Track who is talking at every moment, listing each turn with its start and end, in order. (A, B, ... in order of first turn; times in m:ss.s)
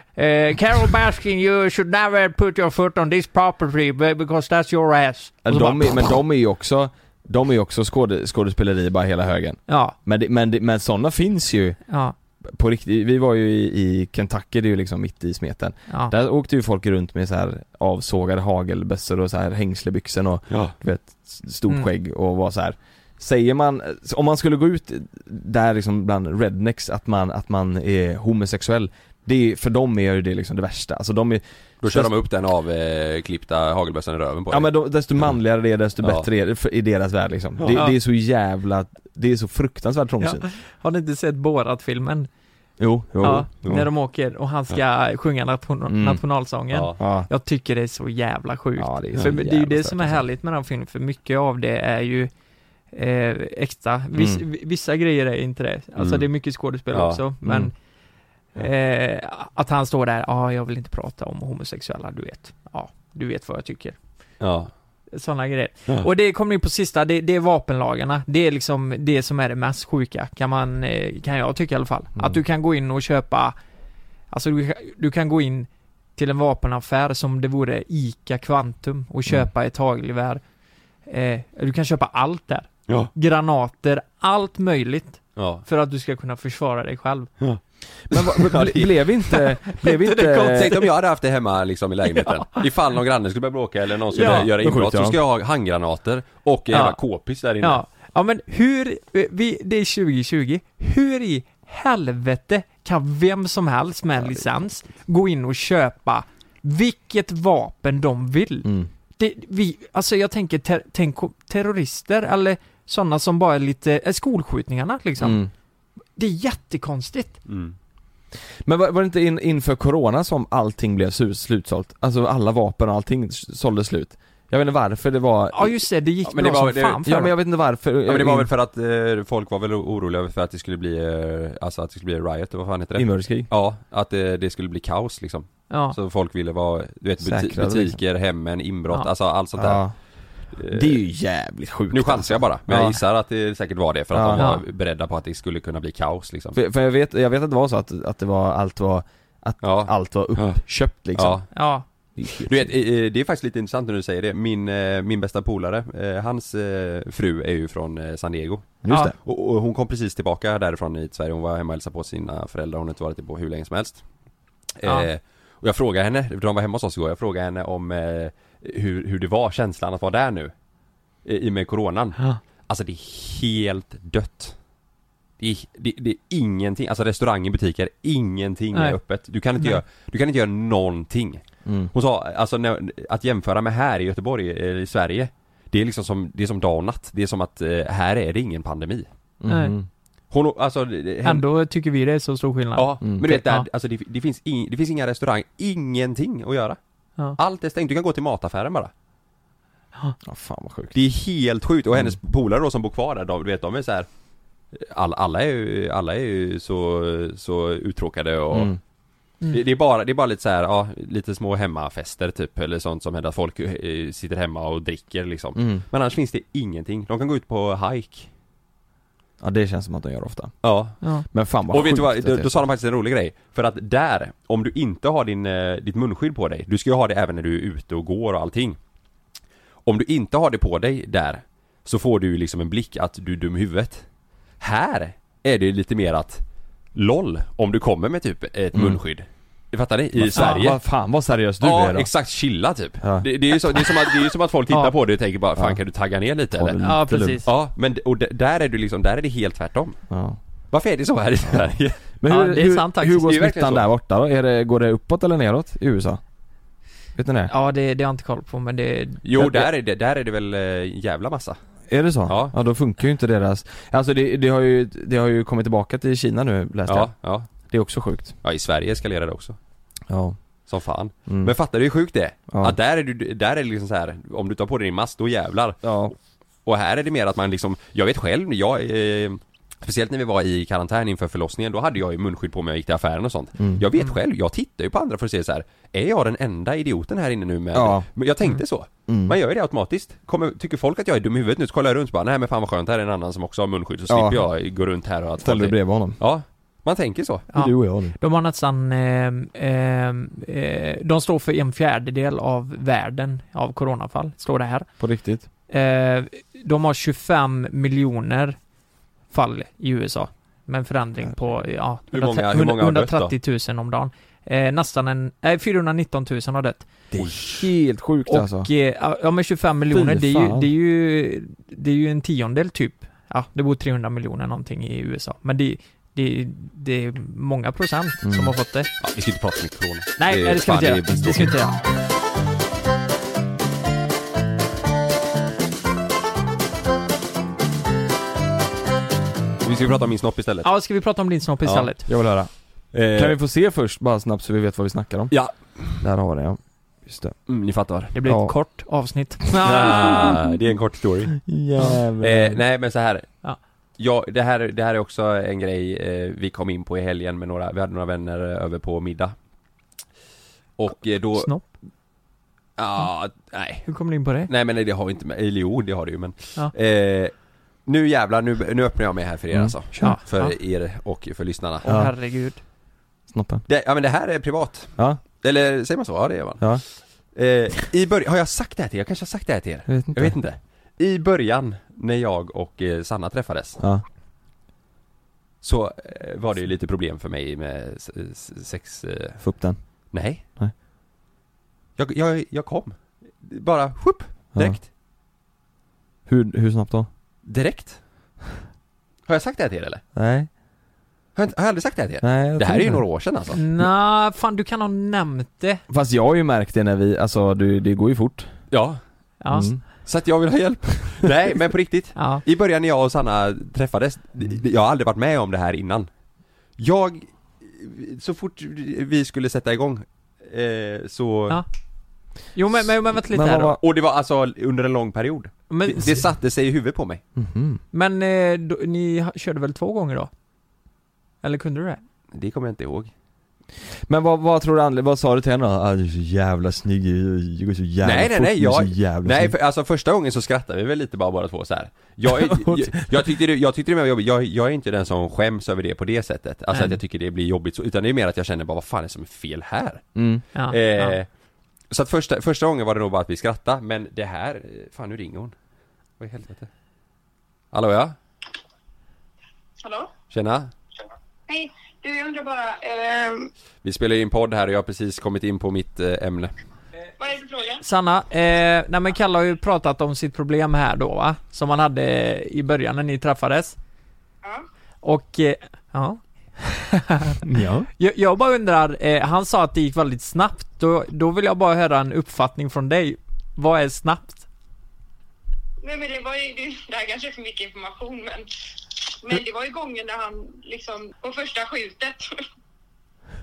0:00.2-0:06.1 A
0:05.4-0:11.8 B
0:09.7-0:10.0 A
0:11.9-0:12.1 A
0:12.4-0:32.1 B
0:31.8-0:34.7 C
0:34.5-0:40.4 B
0:36.0-0:36.2 C
0:37.6-0:37.8 C
0:40.2-0:42.3 A
0:42.8-0:43.8 B
0:43.2-0:52.3 A
0:45.9-0:46.2 B
0:46.7-0:47.0 C
0:47.0-0:47.3 B
0:48.8-0:50.2 B
0:52.9-0:57.7 A
0:54.2-0:54.4 B
0:56.0-0:56.2 C
0:56.9-0:57.2 C
0:57.4-0:57.7 B
0:58.5-1:04.0 A
1:04.4-1:04.7 C
1:05.1-1:13.5 A
1:14.3-1:20.4 A
1:21.1-1:27.3 A
1:25.4-1:25.6 C
1:28.1-1:30.8 B
1:28.1-1:29.1 C
1:29.7-1:30.9 A
1:30.5-1:37.8 C
1:32.2-1:32.6 A
1:34.1-1:34.5 A
1:34.2-1:35.2 B
1:36.7-1:37.0 A
1:37.6-1:55.4 A
1:48.6-1:48.9 B
1:55.2-1:55.5 B
1:56.2-1:57.4 A
1:57.4-1:57.7 C
1:58.6-2:05.7 B
2:05.5-2:07.3 A
2:06.2-2:07.0 C
2:07.0-2:08.5 B
2:08.0-2:19.8 C
2:13.0-2:13.5 B
2:15.7-2:16.0 A
2:17.2-2:18.0 B
2:19.6-2:19.9 B
2:20.5-2:21.0 C
2:20.7-2:23.0 B
2:21.9-2:26.6 C
2:24.1-2:24.5 B
2:24.4-2:24.6 A
2:26.5-2:31.4 B
2:29.6-2:30.6 C
2:31.1-2:31.4 C
2:31.5-2:31.8 A
2:32.2-2:32.7 B
2:32.4-2:44.0 C
2:38.8-2:39.1 B
2:44.8-2:50.5 C
2:51.2-2:54.6 C
2:55.4-3:09.1 C
3:01.6-3:01.9 B
3:09.4-3:09.9 B
3:09.5-3:09.7 A
3:10.3-3:11.4 C
3:11.2-3:13.6 A
3:12.8-3:16.8 C
3:17.4-3:18.9 C
3:20.2-3:21.0 B
3:20.9-3:24.1 C
3:24.7-3:28.7 C
3:28.5-3:28.8 B
3:29.5-3:38.3 C
3:35.6-3:35.8 B
3:39.4-3:40.6 B
3:40.6-3:41.0 C
3:41.3-3:42.5 B
3:41.7-3:48.8 C
3:49.8-3:54.0 C
3:54.6-3:56.4 C
3:56.9-4:00.8 C
3:58.7-3:59.0 B
4:00.2-4:02.1 B
4:00.3-4:00.6 A
4:01.6-4:06.8 C
4:03.0-4:03.3 B
4:06.5-4:07.4 B
4:06.8-4:07.5 A
4:07.4-4:10.0 C
4:10.1-4:10.4 B
4:10.7-4:12.0 C
4:11.5-4:16.2 B
4:12.3-4:13.3 A
4:13.2-4:13.9 C
4:17.2-4:17.5 B
4:17.5-4:19.2 A
4:19.2-4:21.6 C
4:19.4-4:19.7 B
4:21.9-4:28.4 B
4:22.3-4:22.5 C
4:26.9-4:27.5 C
4:28.4-4:29.6 C
4:30.1-4:30.4 B
4:30.7-4:35.8 C
4:31.3-4:31.5 B
4:32.5-4:32.8 B
4:35.8-4:36.1 B
4:36.6-4:57.5 C
4:43.6-4:43.8 B
4:47.7-4:48.1 B
4:49.1-4:49.4 B
4:54.1-4:54.4 B
4:55.4-4:56.2 B
4:57.5-5:04.9 A
4:57.5-4:58.1 B
5:05.0-5:05.5 B
5:05.7-5:08.6 A
5:09.3-5:16.9 A
5:12.1-5:13.3 C
5:17.1-5:18.7 B
5:17.2-5:17.6 C
5:18.3-5:28.9 A
5:19.9-5:20.7 B
5:28.2-5:28.5 B
5:29.0-5:31.6 C
5:30.2-5:31.7 A
5:39.6-5:40.7 C
5:40.6-5:42.0 A
5:42.1-5:42.5 B
5:42.9-5:43.4 C
5:43.1-5:45.4 B
5:45.3-5:46.0 C
5:46.0-5:47.4 B
5:47.5-5:48.1 C
5:48.1-5:50.4 A
5:48.2-5:48.5 B
5:49.6-5:51.5 C
5:51.4-5:52.6 B
5:52.2-5:53.4 C
5:54.0-5:59.3 C
6:00.8-6:01.5 C
6:01.4-6:01.7 A
6:02.8-6:03.9 C
6:03.8-6:04.5 A
6:04.5-6:07.3 C
6:07.8-6:11.8 C
6:09.5-6:10.2 B
6:10.0-6:10.5 A
6:11.8-6:12.6 A
6:11.8-6:12.1 B
6:13.3-6:13.6 B
6:13.7-6:16.8 C
6:17.3-6:23.8 C
6:19.9-6:20.4 B
6:23.8-6:24.0 B
6:25.6-6:29.4 C
6:29.4-6:30.7 B
6:30.1-6:30.4 C
6:32.0-6:34.8 C
6:36.2-6:37.1 B
6:37.4-6:38.0 C
6:39.3-6:40.0 C
6:40.1-6:40.5 B
6:41.4-6:43.6 C
6:42.2-6:43.0 B
6:43.5-6:45.8 A
6:45.9-6:48.6 B
6:48.7-6:49.0 C
6:49.4-6:49.7 A
6:49.5-6:49.8 B
6:50.0-6:56.1 C
6:52.2-6:52.4 A
6:56.8-7:01.6 C
7:02.5-7:03.8 A
7:03.3-7:03.8 B
7:03.8-7:07.2 C
7:05.7-7:06.2 A
7:07.4-7:07.8 B
7:07.9-7:10.3 A
7:11.4-7:12.0 A
7:12.3-7:13.1 C
7:14.1-7:19.5 B
7:18.0-7:30.2 C
7:22.3-7:22.9 B
7:30.2-7:30.4 B
7:30.5-7:31.2 A
7:30.7-7:31.3 C
7:31.9-7:35.5 C
7:36.2-7:36.7 C
7:37.7-7:38.2 C
7:39.8-7:40.1 D
7:40.3-7:40.7 C
7:41.5-7:43.5 D
7:43.8-7:46.5 C
7:47.2-7:47.8 D
7:47.8-7:53.8 A
7:55.0-7:57.4 A
7:57.4-7:57.9 B
7:58.0-8:04.4 A
8:05.8-8:08.4 D
8:09.2-8:12.2 D